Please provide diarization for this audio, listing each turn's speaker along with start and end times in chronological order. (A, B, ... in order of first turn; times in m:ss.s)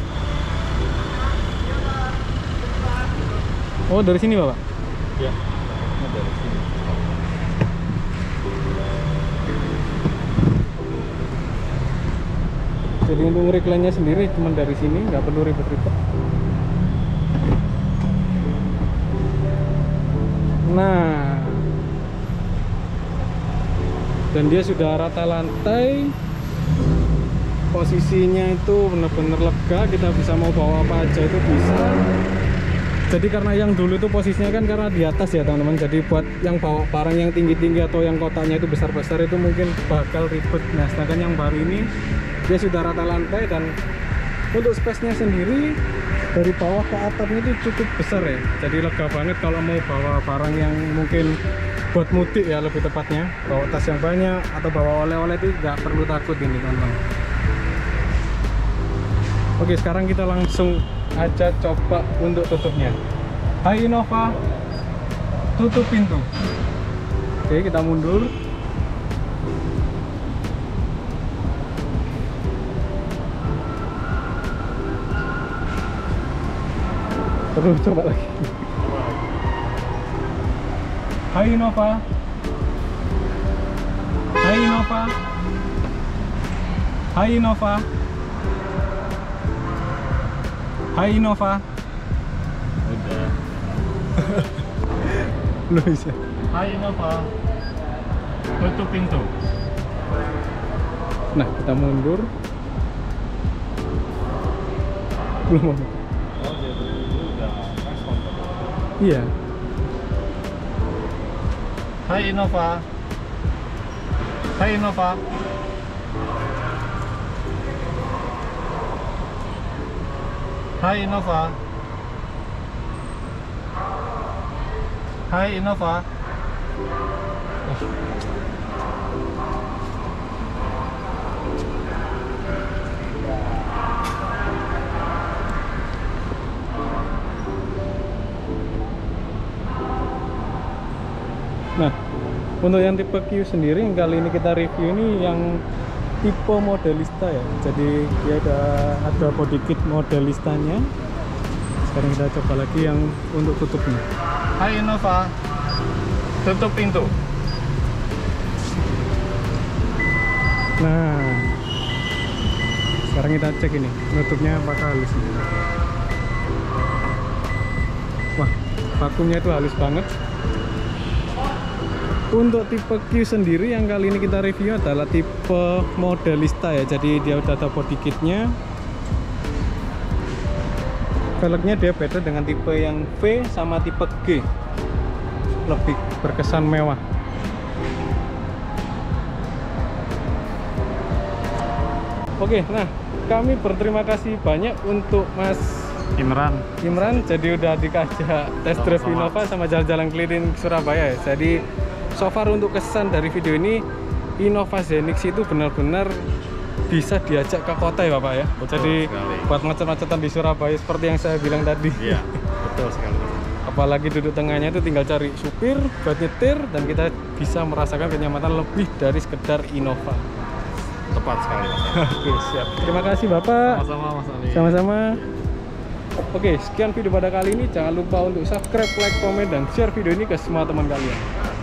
0:03.9-0:04.6 A
0:05.2-0:07.6 B
0:13.1-0:16.0 A
0:20.7-0:21.7 A
0:24.3-0:26.2 A
0:27.7-0:32.0 A
0:33.1-0:41.9 A
0:42.5-0:43.7 A
0:44.5-0:45.8 A
0:46.3-0:51.4 A
0:51.9-0:57.0 A
0:59.6-1:03.0 A
1:03.6-1:04.4 A
1:05.6-1:06.3 A
1:07.5-1:08.3 A
1:17.5-1:18.7 A
1:18.9-1:19.2 B
1:21.3-1:22.0 A
1:24.4-1:25.1 A
1:27.1-1:27.9 A
1:30.9-1:31.6 A
1:32.8-1:33.9 B
1:34.2-1:34.5 A
1:35.7-1:36.2 A
1:36.5-1:37.3 B
1:38.6-1:39.3 B
1:41.4-1:42.3 A
1:45.5-1:46.0 A
1:46.4-1:48.7 B
1:49.0-1:49.3 A
1:52.0-1:52.9 B
1:54.6-1:55.2 B
2:00.8-2:01.6 B
2:05.3-2:06.1 B
2:22.6-2:25.6 A
2:26.2-2:30.9 A
2:31.8-2:34.0 A
2:34.6-2:35.3 B
2:36.4-2:37.2 B
2:40.8-2:41.5 A
2:43.1-2:45.4 A
2:48.4-2:50.1 A
2:52.3-2:58.5 A
3:01.4-3:04.5 A
3:05.6-3:07.0 A
3:12.4-3:16.1 A
3:16.2-3:17.3 B
3:16.8-3:21.6 A
3:18.7-3:19.5 B
3:22.1-3:23.8 A
3:24.4-3:26.2 A
3:26.9-3:32.2 A
3:28.6-3:29.6 B
3:31.9-3:33.5 B
3:33.6-3:40.3 A
3:41.1-3:42.3 B
3:41.9-3:43.8 A
3:43.6-3:45.5 B
3:44.5-3:45.2 A
3:46.3-3:51.3 A